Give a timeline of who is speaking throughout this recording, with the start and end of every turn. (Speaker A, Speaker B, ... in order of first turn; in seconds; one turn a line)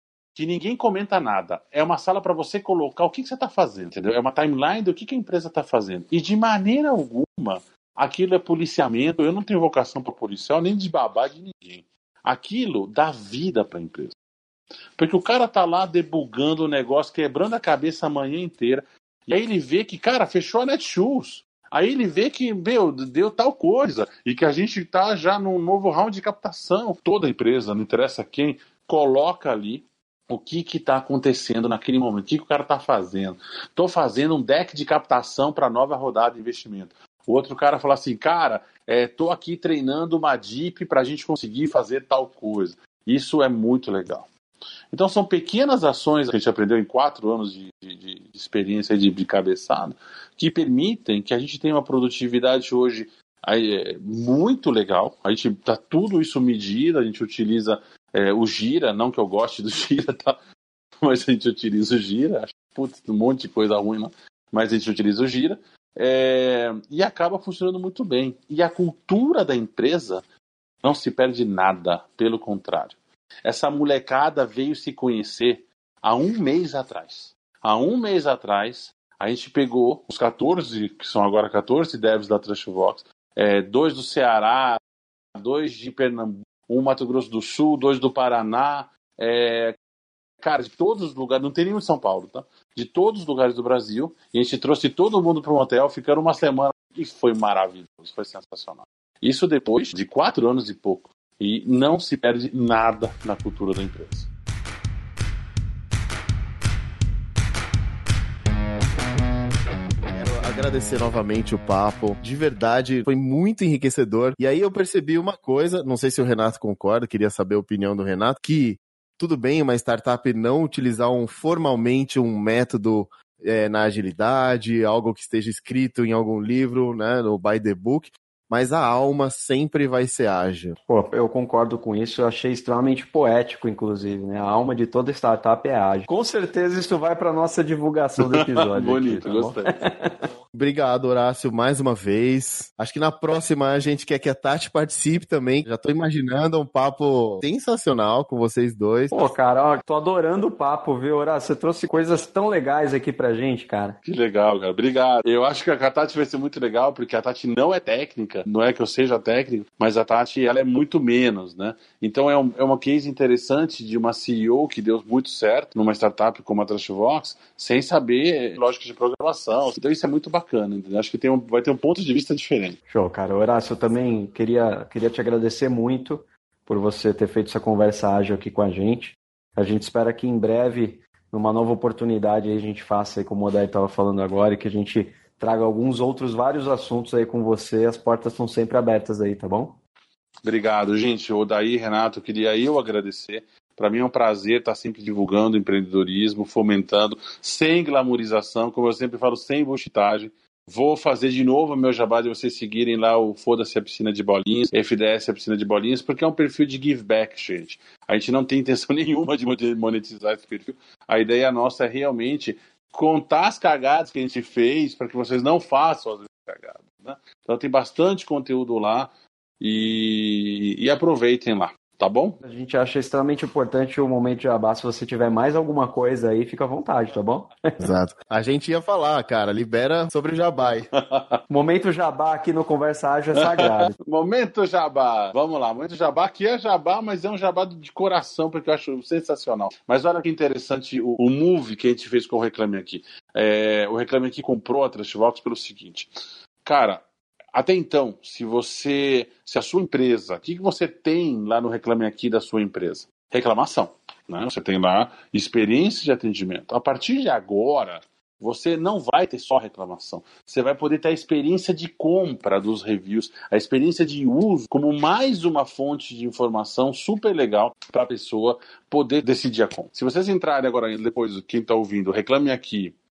Speaker A: 0.3-14.1
Speaker A: 15.0-44.3
Speaker A: 44.9-60.4
Speaker A: 61.0-70.2
Speaker A: 70.8-84.8
Speaker A: 85.3-89.8
Speaker A: 90.4-104.3
Speaker B: 110.1-130.8
Speaker C: 130.9-140.2
Speaker A: 138.2-139.8
Speaker B: 140.5-149.3
Speaker C: 149.1-154.0
Speaker A: 154.0-172.8
Speaker C: 172.9-189.8
Speaker A: 190.4-222.4
Speaker C: 222.4-227.8
Speaker B: 227.8-230.9
Speaker A: 231.0-231.4
Speaker C: 231.5-233.9
Speaker A: 233.3-246.1
Speaker A: 246.6-272.9